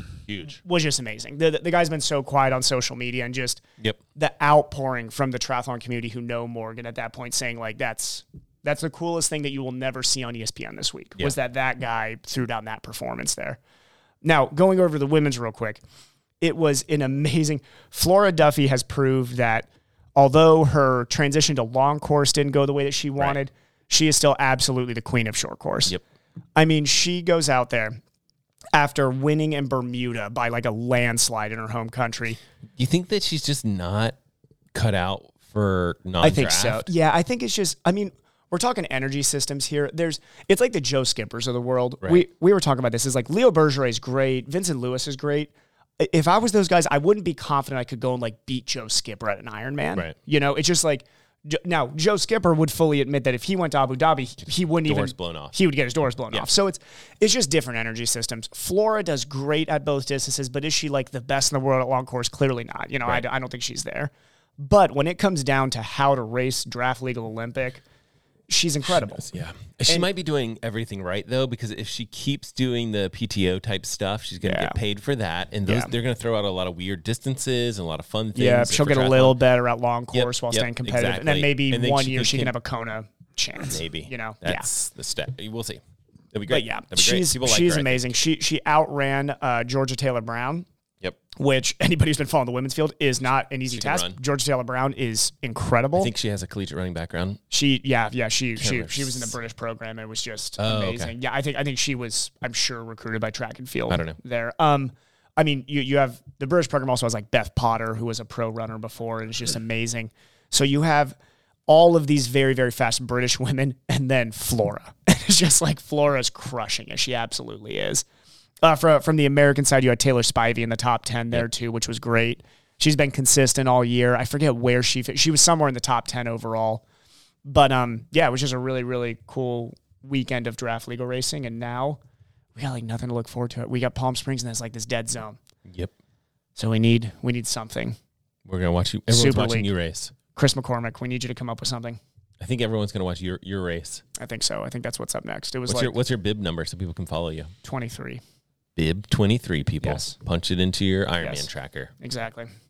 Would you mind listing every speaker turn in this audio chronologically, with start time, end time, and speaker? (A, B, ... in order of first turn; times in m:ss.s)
0:00.3-0:00.6 A
0:00.5-0:03.6 B
0:04.2-0:13.6 B
0:14.2-0:15.8 B
0:16.4-0:25.9 B
0:26.6-0:28.0 B
0:28.7-0:32.4 B
0:32.8-0:34.1 A
0:34.7-0:36.9 A
0:36.2-1:07.8 B
0:54.8-0:55.6 A
1:08.5-1:09.2 B
1:09.0-1:19.4 A
1:14.4-1:14.7 B
1:15.6-1:15.9 B
1:18.4-1:24.7 B
1:20.1-1:22.5 A
1:23.6-1:25.8 A
1:26.3-1:28.1 A
1:26.5-1:30.6 B
1:31.4-1:36.1 B
1:33.7-1:34.2 A
1:35.9-1:37.4 A
1:37.5-1:51.2 B
1:38.6-1:39.3 A
1:40.6-1:41.1 A
1:43.9-1:44.2 A
1:51.7-1:58.0 B
1:58.6-2:06.8 B
2:07.4-2:12.0 B
2:12.6-2:15.4 B
2:15.6-2:15.9 A
2:16.6-2:18.0 B
2:18.4-2:20.1 A
2:19.1-2:19.7 B
2:20.4-2:22.0 B
2:22.4-2:24.0 A
2:24.2-2:25.9 B
2:25.7-2:27.5 A
2:27.6-2:28.2 B
2:28.8-2:31.9 A
2:29.8-2:30.1 B
2:31.2-2:31.5 B
2:32.0-2:32.5 B